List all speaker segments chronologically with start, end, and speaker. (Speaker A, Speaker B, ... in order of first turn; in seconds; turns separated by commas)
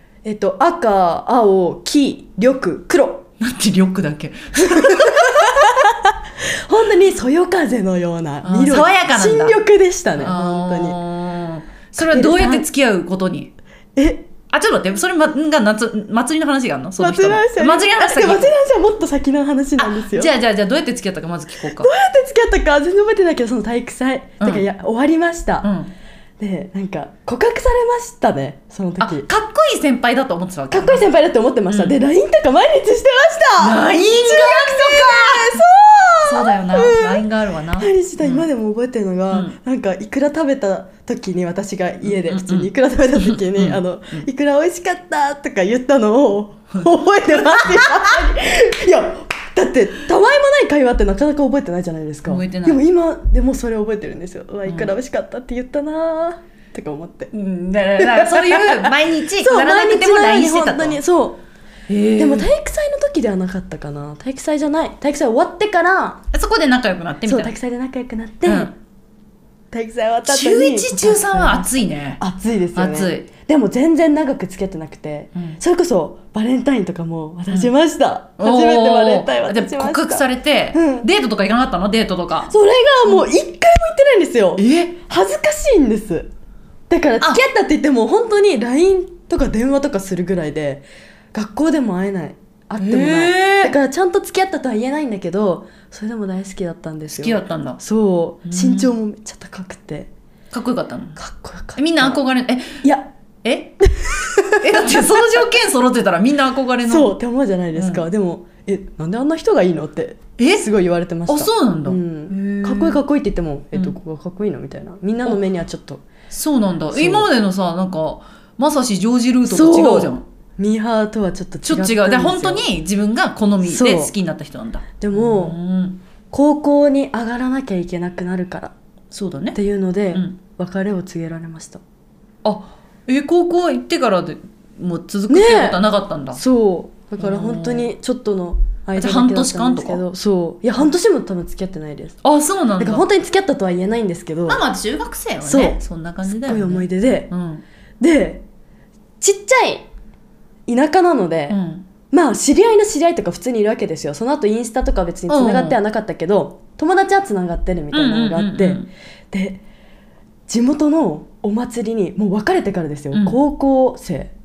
Speaker A: 0.2-3.3, Speaker B: 3.4-5.7, Speaker A: 4.6-11.0, Speaker B: 8.4-9.6, Speaker B: 10.2-13.5, Speaker A: 12.0-12.7, Speaker A: 14.0-14.3, Speaker B: 14.5-18.6, Speaker A: 17.0-20.3, Speaker B: 19.8-21.9, Speaker A: 21.7-25.7, Speaker B: 25.6-25.9, Speaker A: 26.4-29.3, Speaker B: 29.0-31.0, Speaker A: 30.7-37.3, Speaker B: 31.7-32.0, Speaker B: 33.6-35.6, Speaker B: 36.2-38.5, Speaker A: 37.8-57.3, Speaker B: 39.3-39.6, Speaker B: 42.0-44.2, Speaker B: 47.5-48.2, Speaker B: 52.3-52.8, Speaker B: 54.6-55.0, Speaker B: 57.3-61.0, Speaker A: 58.0-61.4, Speaker B: 61.9-62.5, Speaker A: 62.2-66.2, Speaker B: 66.3-67.5, Speaker A: 67.3-68.7, Speaker B: 68.5-68.7, Speaker A: 69.7-81.1, Speaker B: 70.3-72.2, Speaker B: 72.8-73.3, Speaker B: 78.4-82.5, Speaker A: 82.5-86.3, Speaker B: 84.6-85.0, Speaker A: 86.9-100.1, Speaker B: 92.8-93.7, Speaker B: 97.1-97.8, Speaker B: 98.5-98.9, Speaker B: 100.5-101.2, Speaker A: 101.2-102.2, Speaker B: 101.8-102.8, Speaker A: 102.8-103.1, Speaker B: 103.4-103.8, Speaker A: 103.9-105.0, Speaker B: 104.6-107.2, Speaker A: 106.8-116.0, Speaker B: 107.7-108.1, Speaker B: 110.4-110.7, Speaker B: 111.3-113.0, Speaker B: 116.3-120.2, Speaker A: 116.9-117.3, Speaker A: 119.5-122.7, Speaker B: 121.6-126.0, Speaker A: 123.6-124.1, Speaker A: 125.0-125.6, Speaker A: 126.3-128.7, Speaker B: 129.1-129.6, Speaker A: 129.5-131.8, Speaker B: 132.4-136.4, Speaker A: 135.3-135.8, Speaker A: 136.3-142.2, Speaker B: 137.2-137.9, Speaker B: 139.0-140.0, Speaker B: 142.2-143.1, Speaker A: 142.8-144.6, Speaker B: 144.5-147.6, Speaker A: 145.4-147.3, Speaker A: 148.0-148.4, Speaker A: 149.2-149.9, Speaker A: 150.7-151.6, Speaker B: 151.5-151.9, Speaker A: 152.1-159.6, Speaker B: 155.3-155.8, Speaker B: 157.9-158.9, Speaker A: 160.5-164.3, Speaker B: 163.1-163.4